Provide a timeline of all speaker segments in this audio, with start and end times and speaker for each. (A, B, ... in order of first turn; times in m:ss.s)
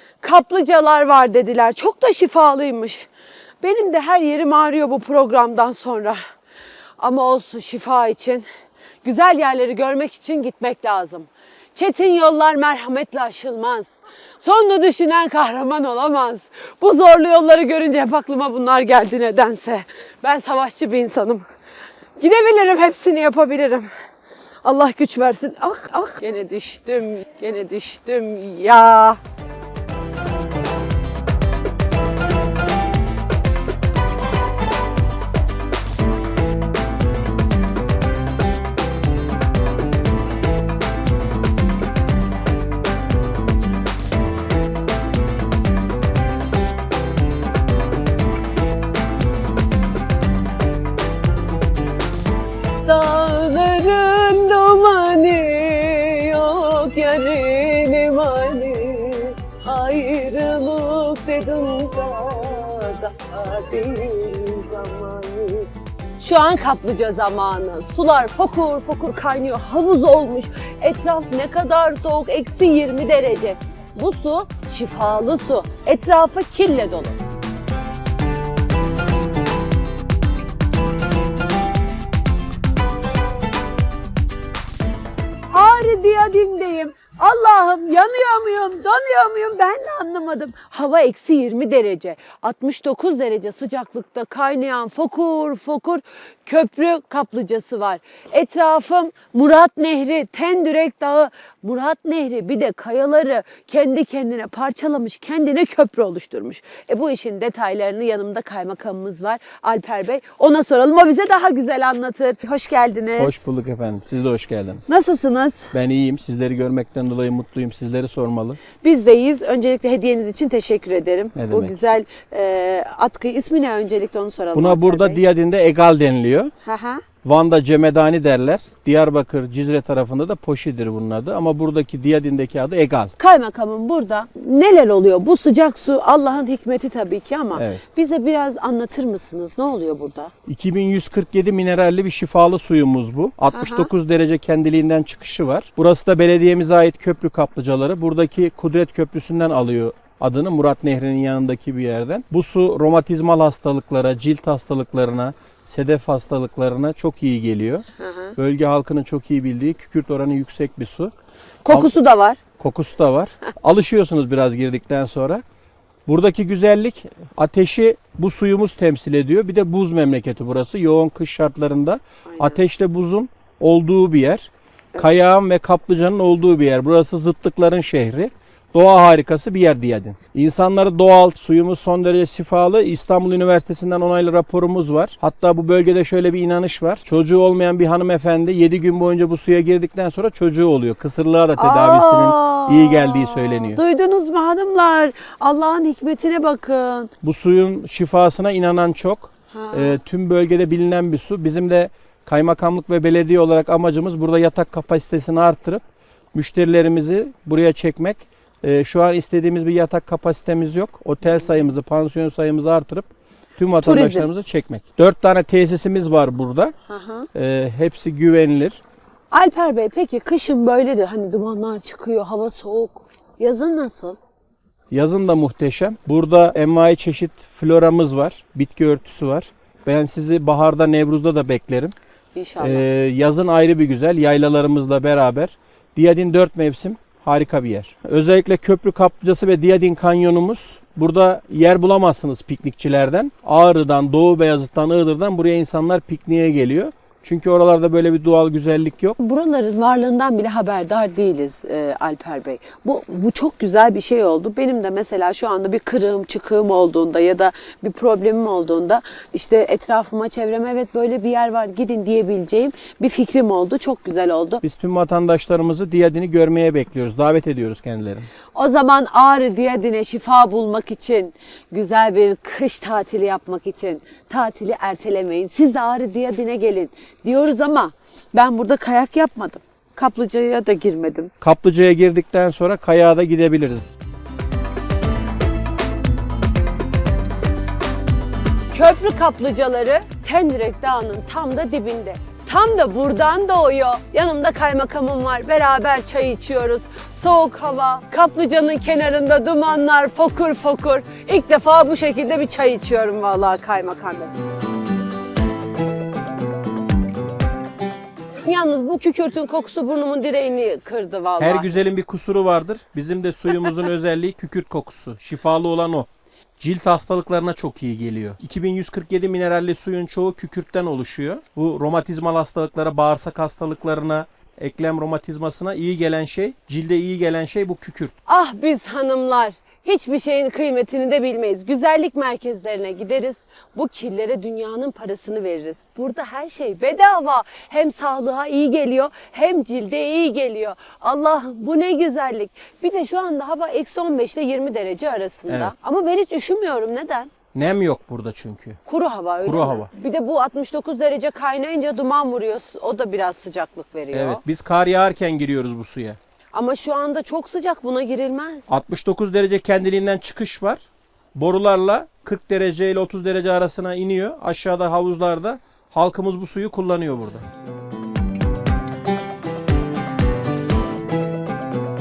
0:00.2-0:03.1 A
0:03.6-0:06.2 A
0:07.0-0:08.4 A
0:09.0-0:21.4 A
0:22.2-0:23.9 A
0:24.6-0:29.2 A
0:52.8-1:17.2 A
1:25.5-1:53.3 A
1:53.2-1:54.9 B
1:54.9-1:55.7 A
1:55.7-1:58.6 B
1:58.8-2:05.2 A
2:01.3-2:01.8 B
2:04.5-2:06.5 B
2:06.6-2:07.0 A
2:07.2-2:13.1 B
2:13.2-2:20.3 A
2:17.5-2:17.8 B
2:20.4-2:37.8 B
2:23.5-2:23.9 A
2:38.0-2:38.4 A
2:38.4-2:41.1 B
2:41.6-2:42.4 A
2:42.6-2:45.4 B
2:46.1-3:13.8 B
2:52.3-2:52.6 A
3:11.6-3:17.1 A
3:17.2-3:25.8 B
3:19.5-3:20.0 A
3:26.3-3:36.7 B
3:33.8-3:34.3 A
3:36.9-3:37.3 A
3:37.3-3:38.8 B
3:39.3-3:44.2 A
3:44.9-3:51.9 B
3:52.3-3:52.8 A
3:52.6-4:09.2 B
4:09.2-4:24.6 A
4:24.6-4:28.3 B
4:28.5-4:41.3 A
4:41.4-4:43.8 B
4:48.7-5:04.3 A
5:08.4-5:11.7 A
5:11.4-5:16.1 B
5:16.6-5:28.1 B
5:28.3-5:47.3 A
5:45.5-5:45.7 B
5:47.5-5:48.8 B
5:48.8-5:54.4 A
5:49.4-5:49.9 B
5:54.1-5:56.2 B
5:56.5-5:58.7 A
5:58.7-6:00.8 B
6:01.4-6:07.4 B